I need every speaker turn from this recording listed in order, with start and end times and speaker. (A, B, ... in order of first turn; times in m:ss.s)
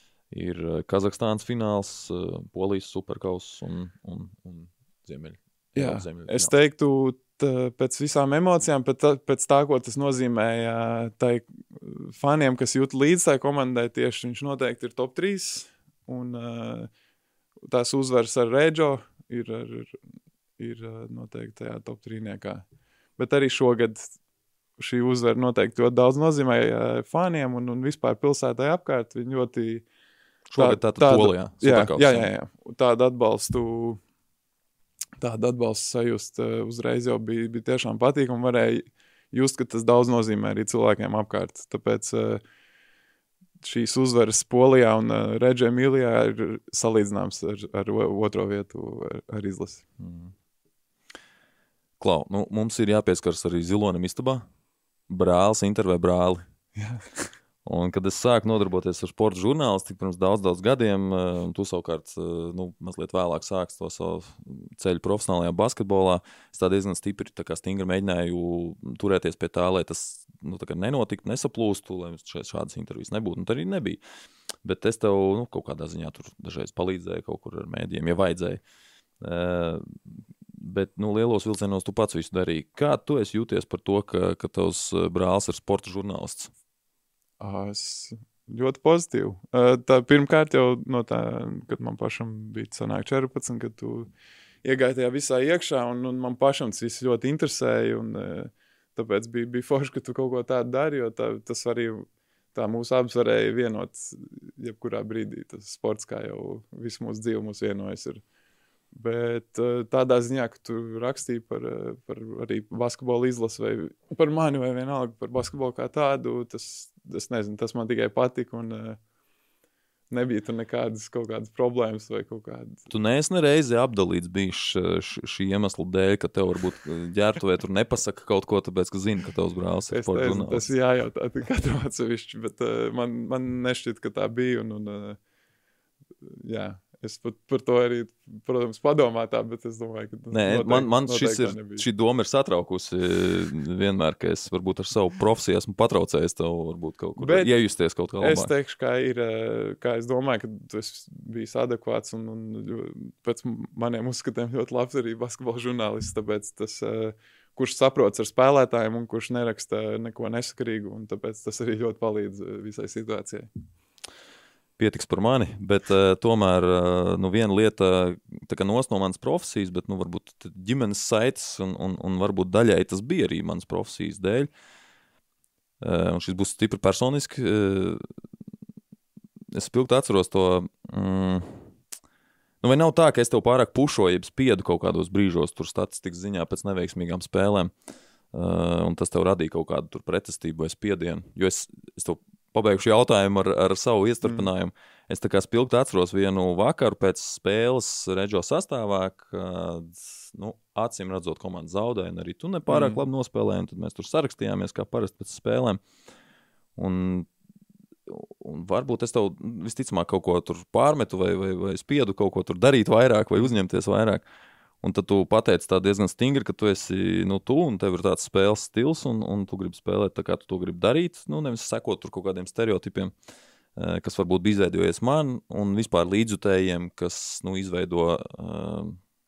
0:00.3-0:06.5 A
0:05.8-0:16.9 B
0:17.7-0:20.0 B
0:20.6-0:22.6 B
0:23.2-0:24.1 B
0:24.8-0:29.8 B
0:30.5-0:32.3 A
0:30.6-0:34.0 B
0:35.2-0:42.4 B
0:43.6-0:49.8 B
0:50.0-0:50.3 A
0:52.0-0:54.5 A
0:55.1-0:56.4 A
0:56.8-0:57.0 B
0:57.6-1:14.0 A
1:14.6-1:18.6 A
1:19.2-1:19.8 A
1:20.5-1:26.5 A
1:27.4-1:34.1 B
1:34.6-1:48.2 B
1:48.9-1:59.0 B
2:00.1-2:02.8 B
2:02.9-2:10.6 A
2:09.9-2:15.2 B
2:16.2-2:21.8 B
2:20.3-2:28.5 A
2:27.2-2:27.5 B
2:28.2-2:43.5 B
2:44.8-2:54.5 A
2:55.8-2:58.1 A
2:59.5-3:01.7 A
3:02.6-3:07.7 A
3:08.3-3:25.8 A
3:22.7-3:23.0 B
3:26.8-3:27.3 A
3:28.1-3:34.2 A
3:34.8-3:43.1 A
3:43.8-3:49.0 A